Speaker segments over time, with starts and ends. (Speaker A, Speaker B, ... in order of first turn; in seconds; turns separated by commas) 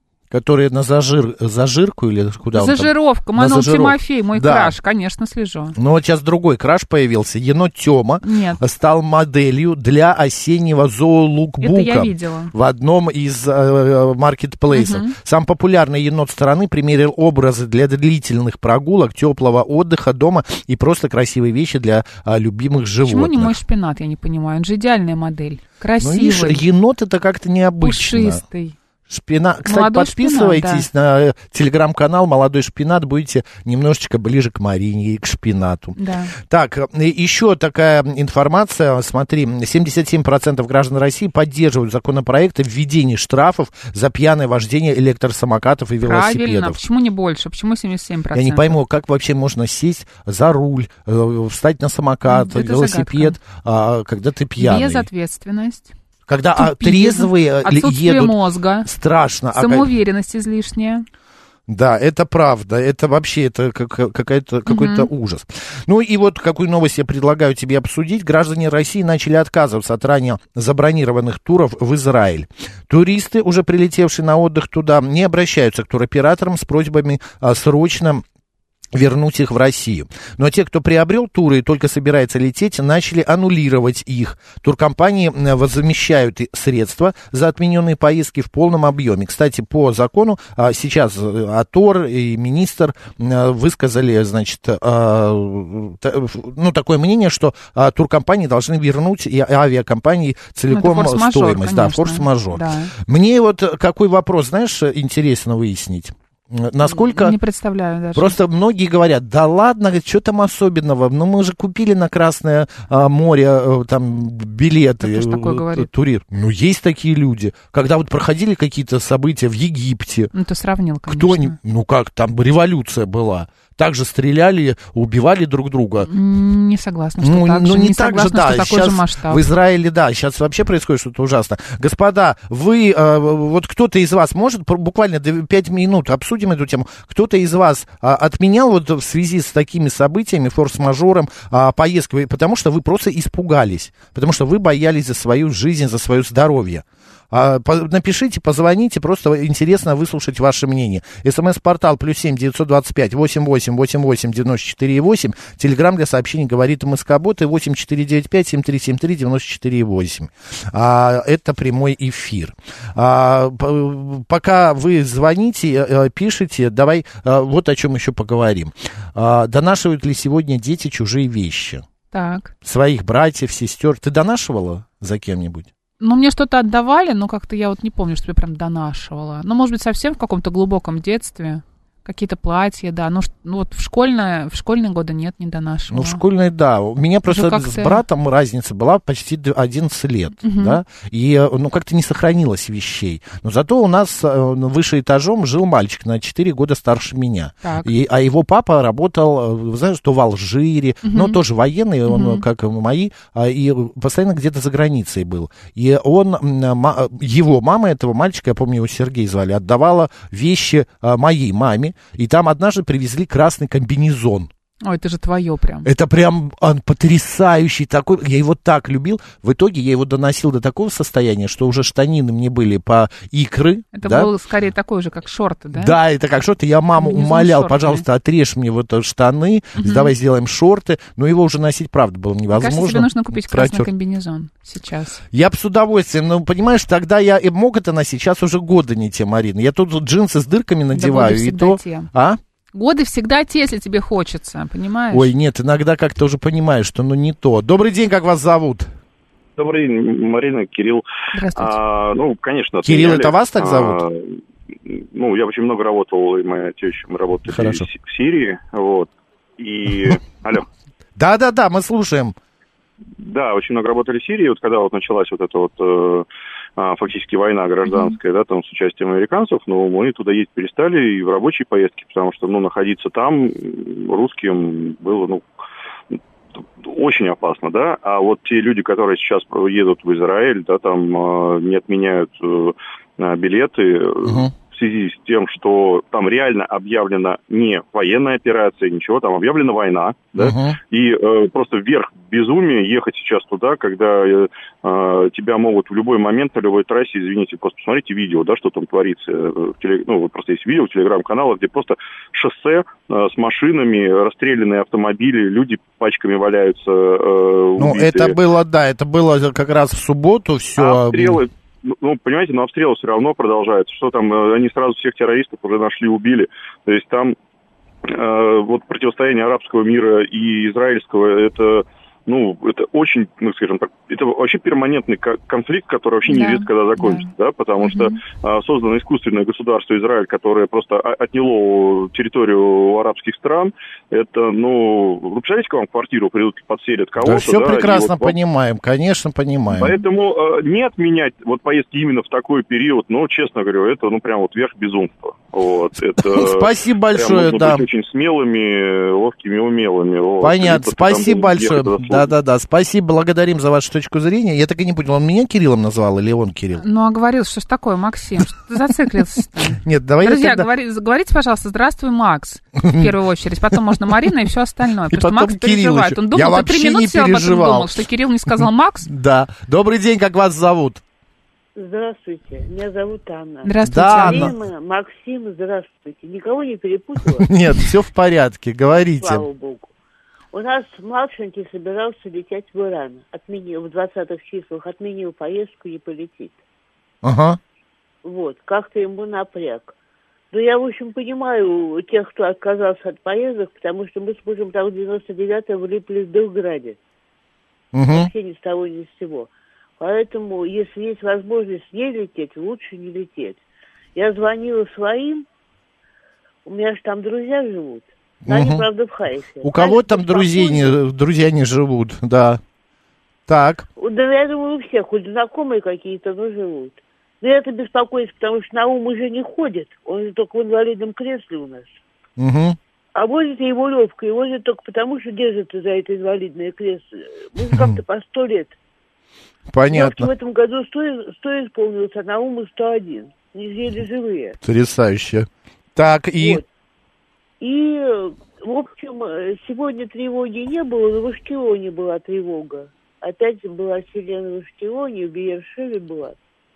Speaker A: 0.3-4.8, Speaker B: 2.5-5.7, Speaker A: 5.8-23.5, Speaker B: 8.2-8.6, Speaker B: 11.6-12.5, Speaker B: 14.7-15.1, Speaker B: 23.0-26.6, Speaker A: 26.0-28.4, Speaker B: 27.8-28.7, Speaker A: 29.1-46.8, Speaker B: 29.6-30.9, Speaker B: 36.0-36.3, Speaker B: 46.0-48.8, Speaker A: 48.3-55.1, Speaker B: 52.3-53.4, Speaker B: 54.6-55.9, Speaker A: 56.3-59.9, Speaker B: 56.5-58.9, Speaker B: 59.5-61.0, Speaker A: 61.7-78.2, Speaker B: 64.7-65.1, Speaker A: 78.9-107.4, Speaker B: 100.7-102.9, Speaker B: 106.8-108.4, Speaker A: 108.1-120.3, Speaker B: 115.0-115.9, Speaker B: 120.3-121.5, Speaker A: 121.1-126.1, Speaker B: 126.0-129.4, Speaker A: 127.2-171.8, Speaker B: 172.1-172.5, Speaker A: 172.6-175.7, Speaker B: 176.0-186.2, Speaker A: 185.9-214.5, Speaker B: 187.3-188.0, Speaker B: 190.4-190.8, Speaker B: 197.6-197.9, Speaker B: 201.0-201.4, Speaker B: 202.1-202.4, Speaker B: 214.8-215.9, Speaker A: 215.8-224.3, Speaker B: 223.9-226.0, Speaker A: 225.7-233.9, Speaker B: 227.0-228.0, Speaker B: 229.8-230.1, Speaker B: 232.5-235.2, Speaker A: 235.3-242.4, Speaker B: 240.9-242.1, Speaker B: 242.7-245.3, Speaker A: 245.1-248.9, Speaker C: 249.6-260.6, Speaker B: 251.3-251.7, Speaker A: 252.8-254.0, Speaker A: 257.5-257.9, Speaker A: 261.2-262.4, Speaker C: 263.2-266.3, Speaker C: 266.8-275.5, Speaker B: 267.9-268.1, Speaker C: 276.8-308.4, Speaker A: 284.2-284.5, Speaker A: 290.4-290.8, Speaker A: 307.8-311.4, Speaker C: 310.8-317.3, Speaker C: 318.0-338.4, Speaker B: 326.3-327.3, Speaker B: 327.8-328.2, Speaker A: 337.2-339.9, Speaker C: 339.7-352.3, Speaker A: 346.2-347.8, Speaker A: 350.4-356.8, Speaker B: 356.8-369.1, Speaker A: 359.7-360.7, Speaker A: 362.8-363.1, Speaker A: 365.1-371.0, Speaker D: 371.8-377.5, Speaker B: 373.6-374.5, Speaker A: 373.8-374.5, Speaker A: 377.4-379.4, Speaker D: 379.2-379.9, Speaker D: 380.5-386.6, Speaker A: 387.2-387.6, Speaker D: 388.2-389.9, Speaker D: 390.5-397.0, Speaker A: 397.9-398.3, Speaker D: 398.1-403.6, Speaker D: 404.1-405.4, Speaker D: 406.6-411.0, Speaker A: 408.4-408.9, Speaker A: 409.6-412.6, Speaker A: 413.5-413.9, Speaker D: 413.9-421.9, Speaker A: 422.4-422.8, Speaker D: 423.1-428.8, Speaker A: 427.7-428.0, Speaker A: 429.7-430.3, Speaker D: 429.9-434.6, Speaker A: 434.6-436.6, Speaker D: 436.4-436.6, Speaker D: 437.6-446.4